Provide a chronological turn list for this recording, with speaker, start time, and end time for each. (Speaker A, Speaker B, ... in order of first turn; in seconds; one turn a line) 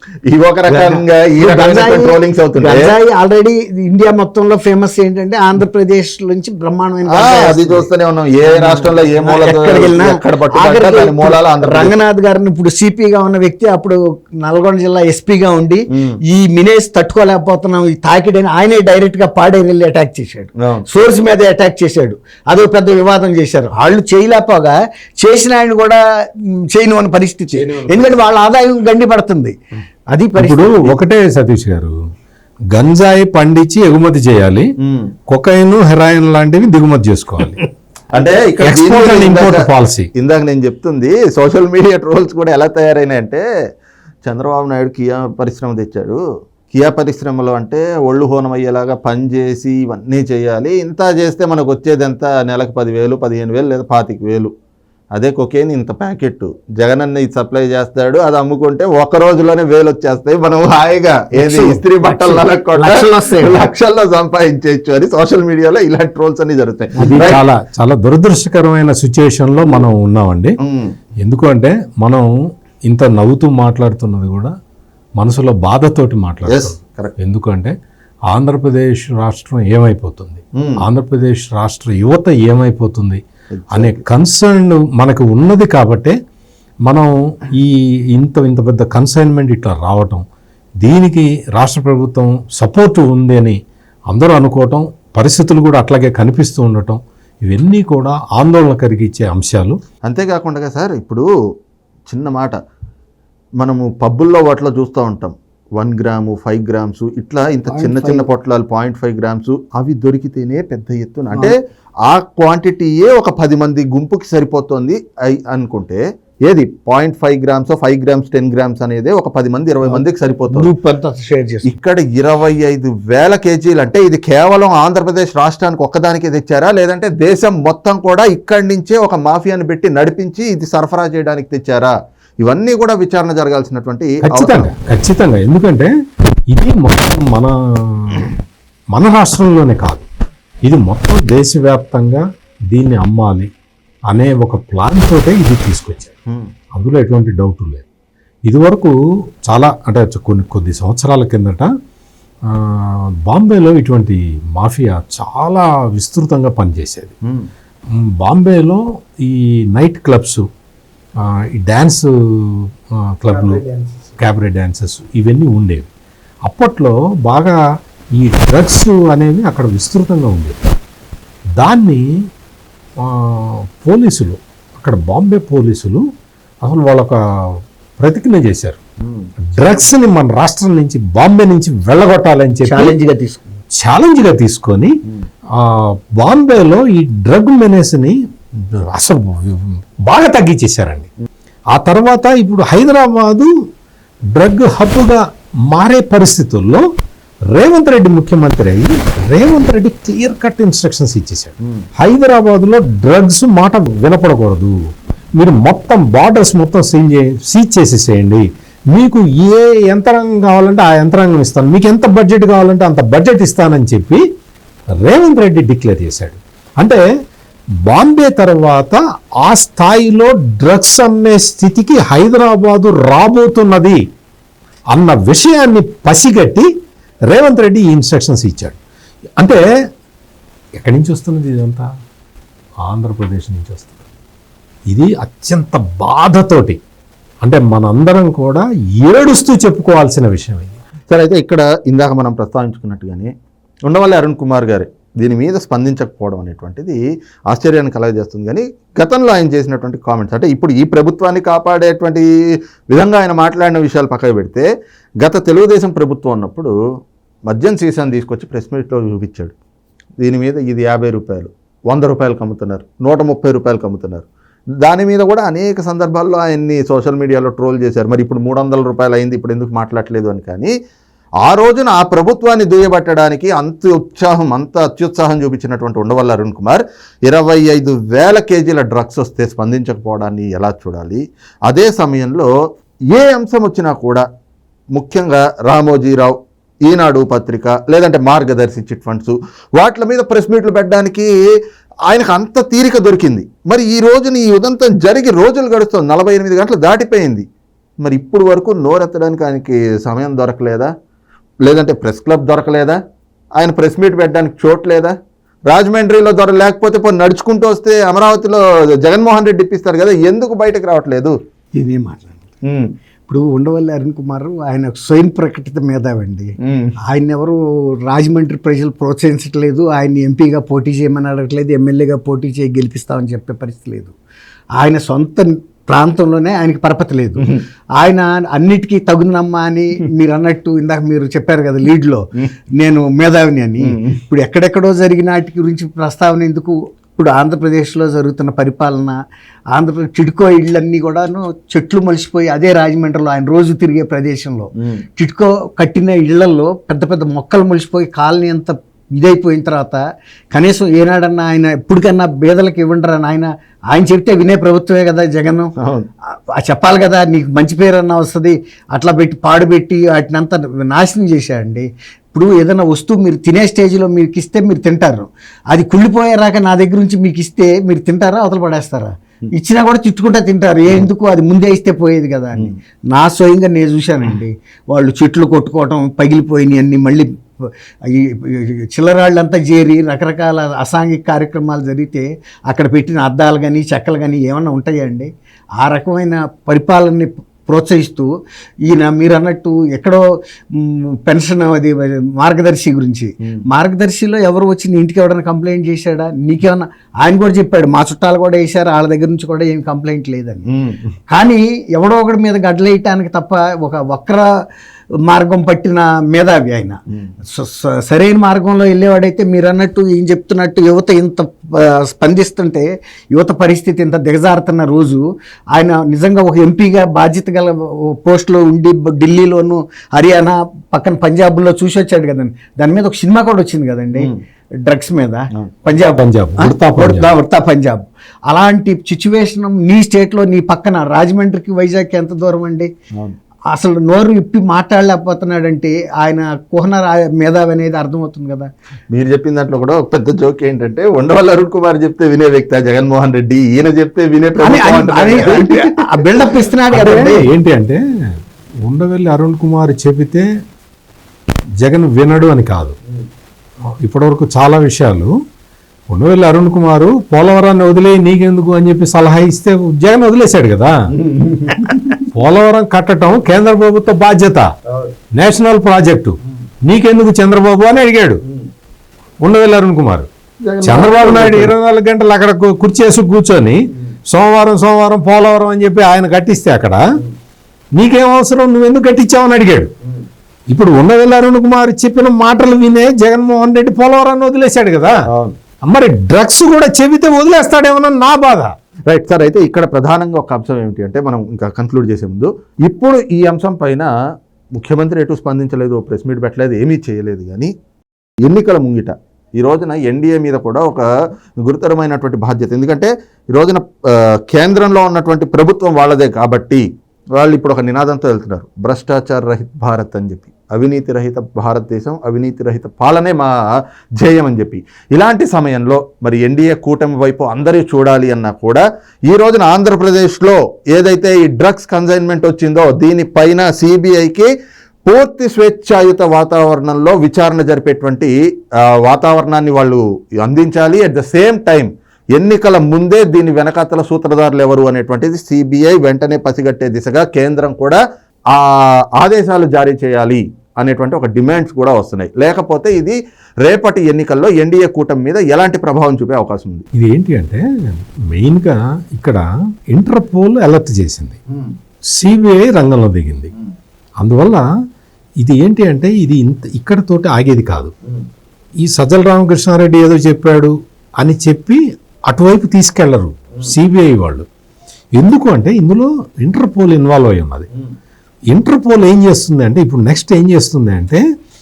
Speaker A: 0.3-2.9
Speaker B: 0.7-7.9
Speaker A: 7.1-11.9
Speaker B: 8.4-29.6
Speaker A: 15.9-16.2
Speaker A: 27.5-28.2
Speaker B: 30.1-30.9
Speaker C: 30.4-31.9
Speaker C: 32.7-34.7
Speaker A: 34.8-35.1
Speaker C: 35.3-37.6
Speaker A: 38.1-39.6
Speaker C: 38.6-40.1
Speaker A: 40.2-43.4
Speaker A: 44.2-46.2
Speaker A: 46.7-54.5
Speaker A: 55.1-67.4
Speaker B: 61.3-63.7
Speaker C: 67.0-70.6
Speaker A: 70.6-70.9
Speaker C: 71.2-72.3
Speaker C: 72.8-74.5
Speaker C: 75.2-77.7
Speaker A: 76.5-77.1
Speaker C: 78.3-83.2
Speaker A: 80.6-80.8
Speaker A: 83.6-84.0
Speaker C: 83.7-86.2
Speaker C: 86.8-90.2
Speaker C: 90.8-93.6
Speaker C: 94.1-99.8
Speaker A: 100.0-101.3
Speaker A: 102.1-102.6
Speaker A: 103.6-120.7
Speaker B: 107.7-108.2
Speaker B: 119.8-121.7
Speaker A: 121.6-134.7
Speaker C: 134.2-135.9
Speaker C: 136.5-138.3
Speaker C: 138.9-140.1
Speaker C: 140.7-143.5
Speaker C: 144.1-146.1
Speaker C: 146.7-147.8
Speaker C: 148.5-148.9
Speaker C: 149.4-151.7
Speaker C: 152.4-157.1
Speaker C: 157.9-160.4
Speaker C: 161.2-163.6
Speaker B: 163.3-164.1
Speaker C: 164.2-165.9
Speaker C: 166.4-167.6
Speaker C: 168.2-170.6
Speaker C: 171.6-172.1
Speaker C: 173.0-176.0
Speaker C: 176.6-178.8
Speaker A: 179.0-179.3
Speaker C: 179.5-182.9
Speaker B: 182.6-183.6
Speaker C: 183.7-185.0
Speaker C: 185.5-191.1
Speaker C: 191.7-193.5
Speaker C: 194.3-196.8
Speaker C: 197.5-204.8
Speaker C: 205.4-214.2
Speaker C: 215.0-217.0
Speaker C: 217.8-224.0
Speaker C: 224.9-226.7
Speaker C: 227.3-228.8
Speaker C: 230.8-231.9
Speaker C: 232.8-234.0
Speaker C: 234.9-236.8
Speaker C: 237.4-240.8
Speaker A: 241.1-243.3
Speaker A: 243.9-252.3
Speaker A: 252.9-254.7
Speaker A: 255.2-256.7
Speaker A: 257.5-259.5
Speaker A: 260.2-264.2
Speaker A: 264.8-270.7
Speaker A: 271.4-282.5
Speaker A: 283.1-284.2
Speaker A: 284.9-291.3
Speaker A: 292.1-297.4
Speaker A: 298.0-300.9
Speaker A: 301.6-303.0
Speaker A: 303.6-305.1
Speaker A: 305.7-311.3
Speaker B: 311.7-312.4
Speaker A: 312.6-312.9
Speaker B: 313.3-324.1
Speaker A: 316.6-316.9
Speaker B: 324.8-332.2
Speaker B: 332.8-339.2
Speaker A: 333.9-334.2
Speaker B: 339.7-355.7
Speaker A: 355.8-356.1
Speaker B: 356.5-388.3
Speaker B: 388.9-390.2
Speaker B: 390.7-400.6
Speaker A: 400.7-401.1
Speaker B: 401.3-404.4
Speaker B: 405.3-424.3
Speaker B: 424.8-432.9
Speaker C: 425.9-427.3
Speaker B: 433.7-438.7
Speaker A: 439.1-446.5
Speaker B: 444.6-447.4
Speaker C: 446.9-448.0
Speaker C: 448.8-450.5
Speaker C: 451.8-453.0
Speaker C: 454.0-455.3
Speaker C: 456.1-461.0
Speaker A: 461.1-462.2
Speaker C: 462.3-464.7
Speaker C: 465.3-468.4
Speaker C: 469.4-470.3
Speaker A: 470.6-471.7
Speaker C: 470.8-477.0
Speaker C: 477.9-479.9
Speaker C: 480.7-485.1
Speaker A: 485.3-485.6
Speaker C: 485.8-488.7
Speaker A: 489.1-494.1
Speaker A: 494.8-497.7
Speaker A: 498.4-501.1
Speaker A: 501.6-506.8
Speaker A: 507.4-513.5
Speaker A: 514.2-524.5
Speaker A: 525.0-546.9
Speaker C: 546.9-551.4
Speaker C: 552.1-553.5
Speaker C: 554.2-554.6
Speaker C: 555.4-557.9
Speaker C: 558.8-564.5
Speaker C: 565.1-567.7
Speaker C: 568.5-571.2